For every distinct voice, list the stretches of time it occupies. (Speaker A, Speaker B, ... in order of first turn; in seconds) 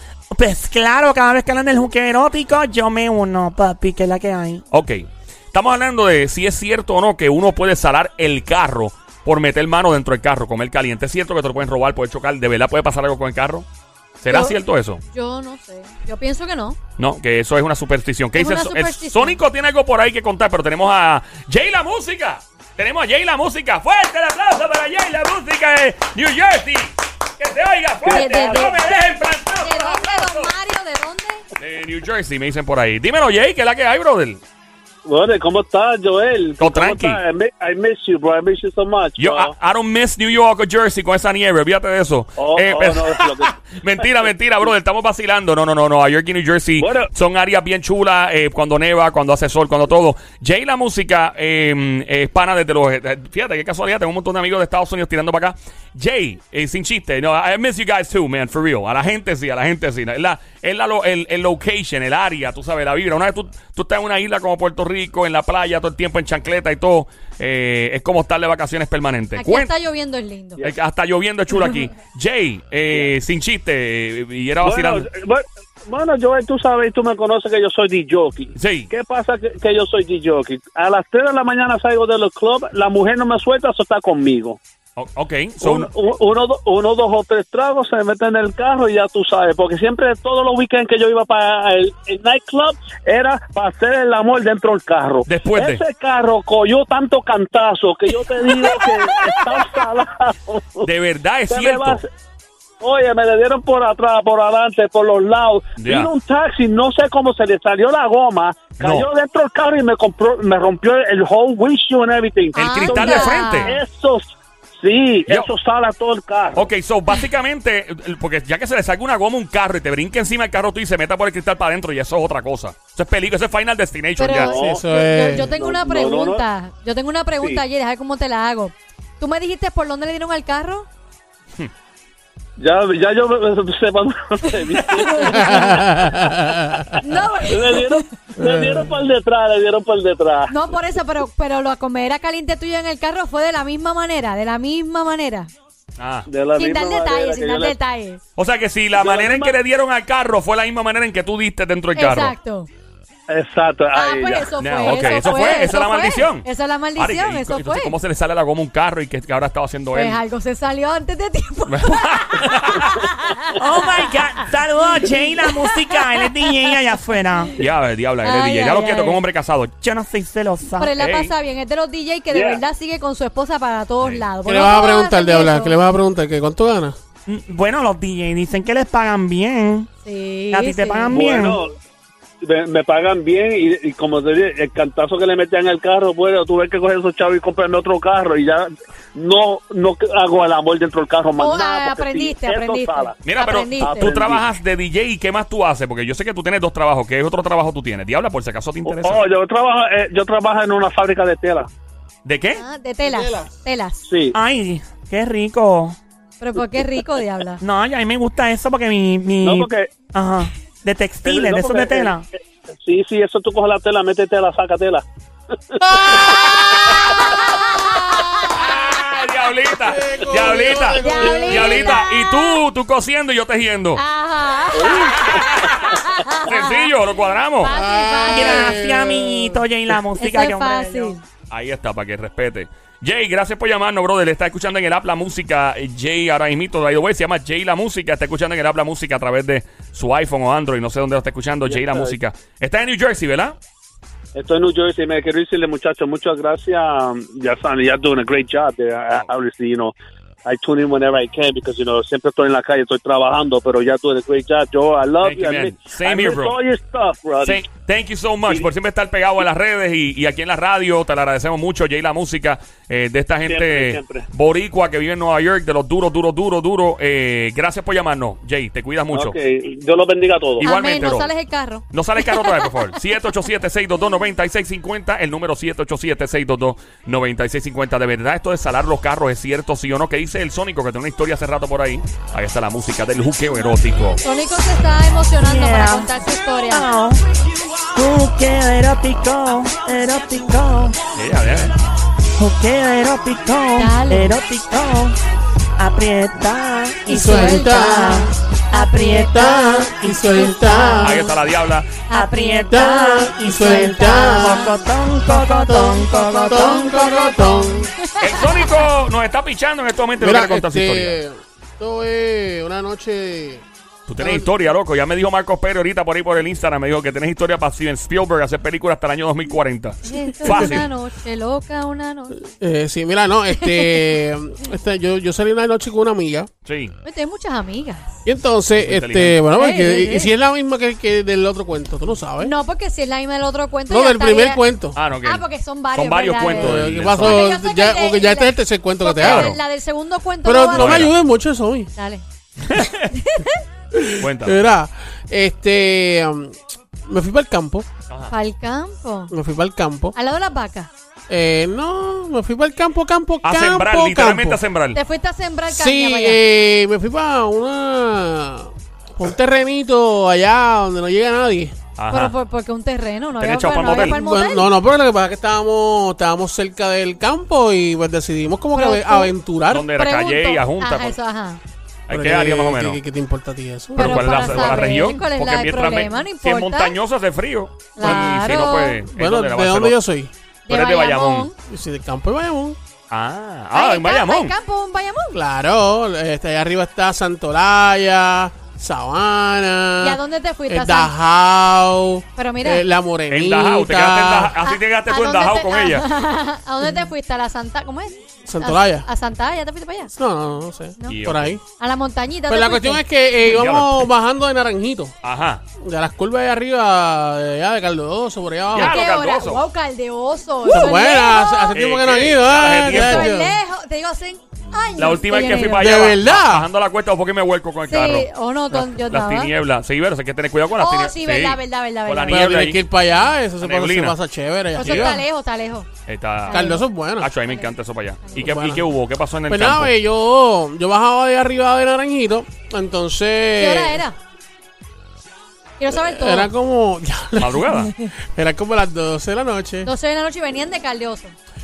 Speaker A: 0.3-4.6, 163.6-167.6, 169.8-170.9, 177.3-179.9, 180.5-181.6, 204.3-206.0, 207.6-212.2, 228.3-231.2, 285.4-286.1, 286.7-287.2, 287.9-290.9, 292.4-295.1, 295.8-297.1, 297.8-300.1, 302.1-307.0
Speaker B: 4.7-13.7, 14.2-15.0, 17.0-30.5, 31.6-34.4, 36.6-37.2, 39.2-69.7, 70.6-75.1, 78.5-78.9, 85.0-85.9, 95.2-95.8, 98.4-99.8, 100.8-102.0, 105.8-106.1, 108.8-109.1, 112.5-113.8, 116.5-124.5, 146.0-146.3, 148.3-152.3, 154.6-160.2, 161.7-163.0, 163.9-165.2, 167.6-170.0, 170.9-171.3, 193.2-199.2, 202.2-202.6, 216.4-217.1, 218.5-224.0, 225.2-227.7, 231.5-243.6, 255.2-256.6, 257.4-269.4, 270.6-271.3, 271.9-284.2, 291.1-291.7, 301.0-302.1, 308.2-311.2, 314.1-320.9, 326.6-326.9, 328.8-329.4, 334.9-337.4, 339.2-339.6, 340.7-341.1, 342.7-343.0, 344.2-344.6, 353.4-355.0, 362.0-362.3, 363.4-364.2, 369.7-371.1, 372.1-373.0, 373.9-380.0, 380.7-381.5, 383.1-384.5, 393.3-396.1, 401.1-401.6, 403.4-404.1, 405.2-405.6, 408.7-409.6, 411.7-413.3, 415.0-422.8, 423.6-424.2, 424.8-425.2, 426.1-429.9, 437.4-437.9
Speaker C: 14.3-16.8, 18.4-19.4, 28.1-28.9, 29.6-31.4, 69.3-70.6, 112.5-113.8, 124.2-130.9, 135.0-135.9, 137.0-138.1, 140.5-145.5, 146.5-148.2, 151.9-152.7, 153.9-157.9, 159.9-163.5, 165.3-166.3, 168.2-169.2, 170.8-175.8, 180.0-181.1, 191.4-194.2, 202.5-204.0, 206.4-207.6, 216.9-218.9, 220.9-222.6, 223.9-226.9, 227.6-228.8, 230.2-231.2, 270.6-272.7, 284.2-286.9, 293.8-294.4, 297.1-301.4, 302.1-304.7, 306.0-308.8, 320.0-322.4, 323.5-324.0, 327.0-328.2, 329.5-330.3, 332.4-334.6, 335.2-341.0, 341.9-342.2, 342.8-343.6, 348.3-349.3, 350.1-350.9, 354.9-356.4, 362.1-364.7, 368.7-369.3, 369.9-371.6, 373.9-376.9, 377.9-379.0, 380.7-381.5, 383.7-385.4, 390.0-391.1, 392.4-392.9, 394.6-400.1, 401.8-403.0, 408.7-411.8, 412.8-416.0, 417.9-419.5, 420.8-422.5, 424.7-425.9, 426.4-426.8, 427.4-427.7, 433.6-434.1, 435.8-436.5, 439.8-441.3
Speaker D: 28.0-28.7, 35.0-39.5, 42.4-44.0, 46.8-47.1, 74.6-84.6, 85.6-100.8, 101.5-102.0, 102.8-116.7, 124.4-124.8, 125.5-126.4, 132.6-135.7, 137.0-140.5, 146.3-147.7, 148.9-149.6, 153.3-154.5, 172.3-172.6, 181.1-181.7, 182.4-193.2, 193.8-194.4, 198.8-201.7, 204.1-204.3, 209.4-210.0, 211.2-212.2, 212.7-215.1, 215.7-217.4, 220.4-220.8, 224.7-225.9, 241.7-242.2, 244.3-249.9, 250.4-257.6, 263.4-264.3, 269.1-270.7
Speaker E: 124.5-125.5, 135.4-136.9, 138.4-138.9, 174.4-176.9, 203.0-203.5, 215.8-216.7, 219.8-222.0, 227.7-229.6, 297.1-298.3, 299.2-301.2, 302.7-304.7, 305.3-307.9, 310.2-313.6, 314.2-314.5, 320.4-320.8, 322.4-326.5, 328.2-332.5, 333.9-335.0, 336.4-339.5, 340.4-341.9, 343.9-347.9, 349.3-350.1, 351.3-354.6, 355.7-361.7, 363.9-369.9, 372.1-374.9, 378.0-380.3, 381.6-382.8, 385.3-394.6, 398.4-399.1, 400.1-401.6, 402.5-405.1, 405.8-409.0, 410.6-413.6, 415.6-416.7, 422.3-425.2, 426.5-427.3, 428.4-428.8, 429.5-434.0, 435.9-439.9